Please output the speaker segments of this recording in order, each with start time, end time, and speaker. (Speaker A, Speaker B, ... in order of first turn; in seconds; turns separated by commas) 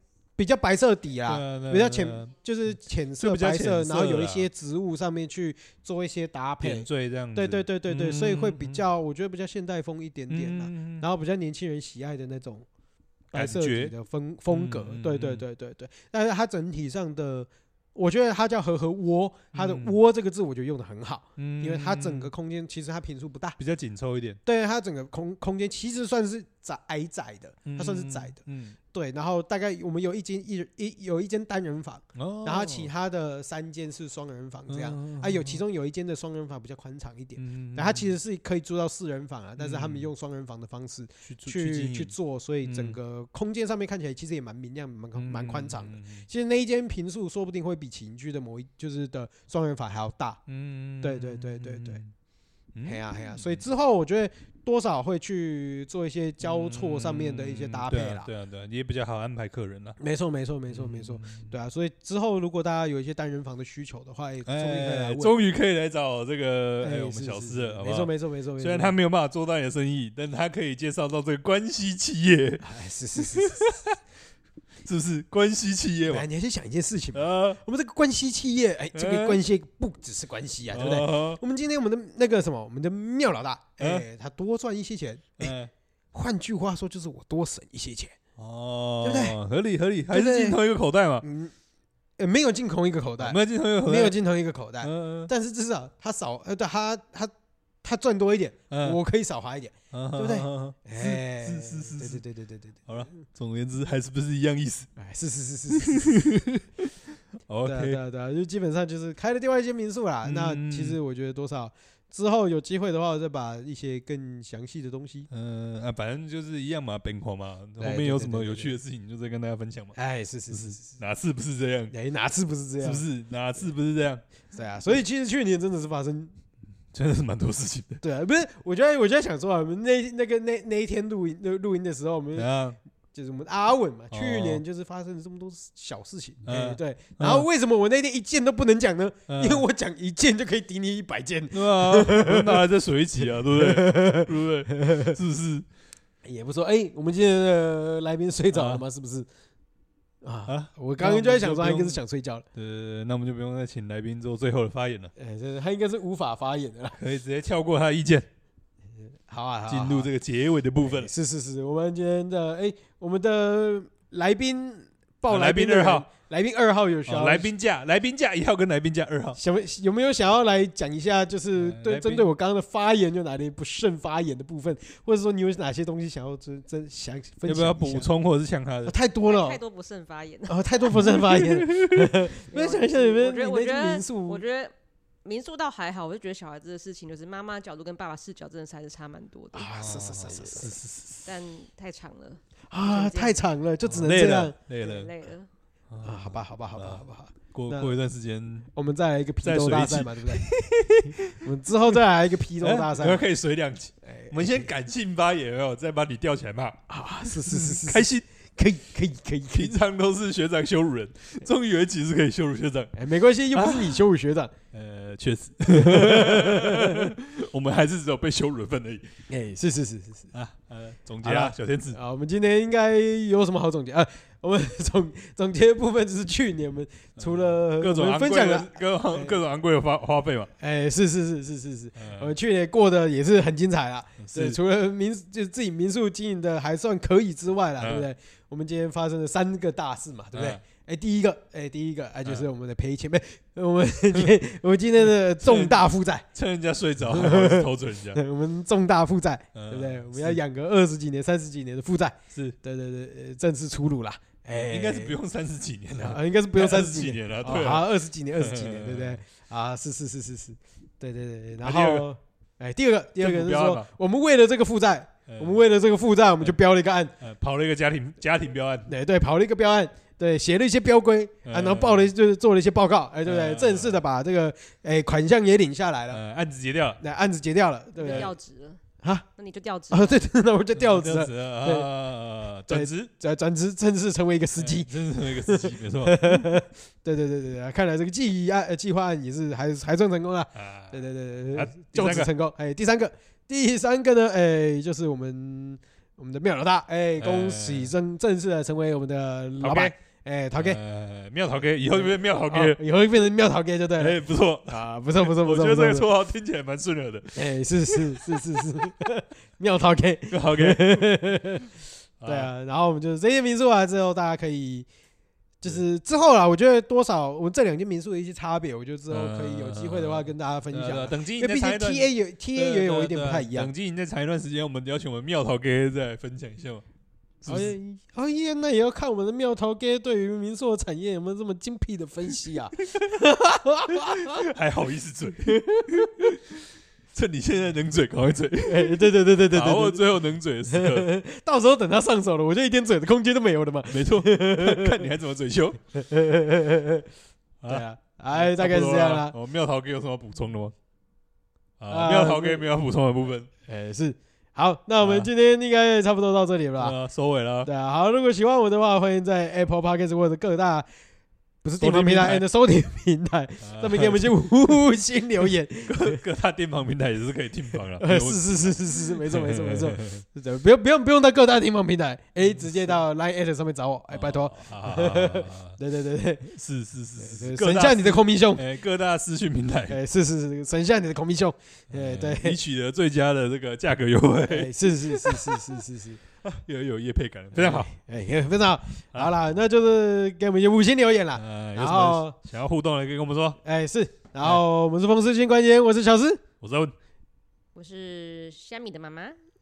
Speaker A: 0.4-12.7, Speaker B: 1.2-2.3, Speaker B: 3.2-4.5, Speaker B: 6.6-8.9, Speaker B: 10.3-11.1, Speaker A: 13.3-23.6, Speaker B: 13.3-13.9, Speaker B: 14.5-15.4, Speaker B: 19.5-19.9, Speaker B: 21.4-22.3, Speaker B: 23.6-24.4, Speaker A: 24.4-28.4, Speaker B: 27.6-28.8, Speaker A: 28.9-50.4, Speaker B: 32.1-32.9, Speaker B: 34.7-35.6, Speaker B: 37.4-38.1, Speaker B: 39.6-40.1, Speaker B: 41.2-42.1, Speaker B: 42.6-43.0, Speaker B: 45.1-46.2, Speaker B: 50.5-52.1, Speaker A: 51.0-52.0, Speaker B: 52.7-53.6, Speaker A: 52.8-58.3, Speaker B: 56.4-60.0, Speaker A: 60.0-65.3, Speaker B: 60.7-61.5, Speaker B: 64.4-72.6, Speaker A: 66.8-68.9, Speaker A: 72.6-73.7, Speaker B: 73.3-74.0, Speaker B: 74.8-76.3, Speaker A: 76.1-85.5, Speaker B: 77.1-77.6, Speaker B: 78.9-79.4, Speaker B: 80.7-81.4, Speaker B: 83.8-84.0, Speaker B: 85.4-85.7, Speaker A: 86.1-88.2, Speaker B: 88.4-91.2, Speaker A: 89.0-89.4, Speaker A: 90.1-90.6, Speaker A: 91.2-91.5, Speaker A: 92.2-97.3, Speaker B: 93.2-94.2, Speaker B: 94.8-95.3, Speaker A: 97.8-102.8, Speaker B: 98.7-99.0, Speaker B: 99.9-102.2, Speaker B: 102.9-104.9, Speaker A: 105.0-106.2, Speaker B: 105.7-106.9, Speaker B: 107.5-108.0, Speaker A: 107.6-115.3, Speaker B: 110.2-111.0, Speaker B: 115.3-120.0, Speaker A: 117.8-118.8, Speaker A: 119.9-120.9, Speaker B: 120.5-121.9, Speaker A: 121.9-123.0, Speaker B: 122.8-124.2, Speaker A: 124.5-126.3, Speaker B: 126.9-128.0, Speaker A: 128.0-132.5, Speaker B: 132.4-132.8, Speaker A: 133.1-142.7, Speaker B: 134.1-134.6, Speaker B: 136.4-137.5, Speaker B: 139.3-139.6, Speaker B: 141.5-145.7, Speaker A: 143.3-145.2, Speaker A: 146.2-149.3, Speaker B: 148.5-148.8, Speaker A: 150.2-152.4, Speaker B: 150.5-152.0, Speaker B: 152.5-155.1, Speaker A: 155.2-157.0, Speaker B: 156.9-158.3, Speaker A: 159.3-160.1, Speaker B: 159.7-161.1, Speaker A: 160.8-167.5, Speaker B: 165.3-166.1, Speaker B: 167.1-169.4, Speaker A: 169.4-178.1, Speaker B: 171.6-172.3, Speaker B: 177.4-178.9, Speaker A: 178.8-179.6, Speaker C: 179.2-181.0, Speaker A: 180.5-184.4, Speaker B: 180.9-182.2, Speaker C: 182.5-184.7, Speaker C: 185.2-189.7, Speaker A: 189.5-190.8, Speaker B: 189.7-191.2, Speaker C: 191.2-193.4, Speaker A: 192.7-194.6, Speaker B: 193.8-195.1, Speaker C: 194.8-195.5, Speaker B: 195.9-198.7, Speaker A: 196.0-197.9, Speaker A: 198.7-200.5, Speaker B: 199.4-202.0, Speaker A: 201.3-203.2, Speaker B: 202.6-208.2, Speaker A: 204.0-204.7, Speaker A: 206.9-209.8, Speaker B: 209.5-212.9, Speaker A: 212.9-214.5, Speaker B: 213.5-214.0, Speaker B: 214.7-219.1, Speaker A: 215.7-217.1, Speaker A: 219.3-220.3, Speaker B: 220.3-222.0, Speaker A: 221.2-229.4, Speaker B: 227.2-230.5, Speaker A: 230.6-246.2, Speaker B: 231.9-232.3, Speaker B: 234.2-234.6, Speaker B: 237.8-238.1, Speaker B: 240.3-240.6, Speaker B: 245.4-248.2, Speaker A: 247.1-255.2, Speaker B: 249.6-250.4, Speaker B: 254.5-259.2, Speaker A: 256.0-267.1, Speaker B: 261.6-262.1, Speaker B: 263.2-263.9, Speaker B: 265.3-265.6, Speaker B: 267.2-268.9, Speaker A: 268.9-276.2, Speaker B: 271.4-272.1, Speaker B: 273.2-274.0, Speaker B: 276.1-277.0, Speaker A: 277.0-278.3, Speaker C: 278.0-278.8, Speaker C: 279.4-280.2, Speaker A: 279.9-281.9, Speaker B: 280.8-283.1, Speaker A: 282.7-300.8, Speaker B: 284.6-286.4, Speaker B: 290.6-291.0, Speaker B: 291.6-292.3, Speaker B: 297.2-297.9, Speaker B: 299.6-299.9, Speaker B: 300.6-302.8, Speaker A: 301.9-306.1, Speaker B: 304.0-308.6, Speaker A: 307.3-314.9, Speaker B: 310.3-311.2, Speaker B: 312.2-312.5, Speaker A: 315.6-323.7, Speaker B: 319.1-326.8, Speaker B: 327.4-327.7, Speaker A: 327.5-334.4, Speaker B: 334.0-336.6, Speaker A: 335.4-336.1, Speaker B: 337.1-341.1, Speaker A: 338.6-345.0, Speaker B: 343.9-345.8, Speaker A: 345.9-347.1, Speaker B: 347.6-350.7, Speaker A: 347.7-349.3, Speaker B: 351.8-353.5, Speaker A: 351.9-352.6, Speaker A: 353.7-356.9, Speaker B: 355.0-355.3, Speaker B: 356.8-357.7, Speaker A: 357.6-360.9, Speaker A: 361.6-366.2, Speaker B: 361.8-362.4, Speaker B: 363.6-364.3, Speaker B: 365.9-370.2, Speaker A: 368.0-376.5, Speaker B: 372.4-373.0, Speaker B: 374.1-375.8, Speaker B: 376.5-380.0, Speaker A: 377.2-378.6, Speaker A: 379.9-382.6, Speaker B: 381.9-385.8, Speaker A: 384.5-386.2, Speaker B: 386.4-387.9, Speaker A: 387.6-392.4, Speaker B: 391.4-393.6, Speaker A: 393.6-396.4, Speaker B: 396.6-396.9, Speaker C: 397.7-399.3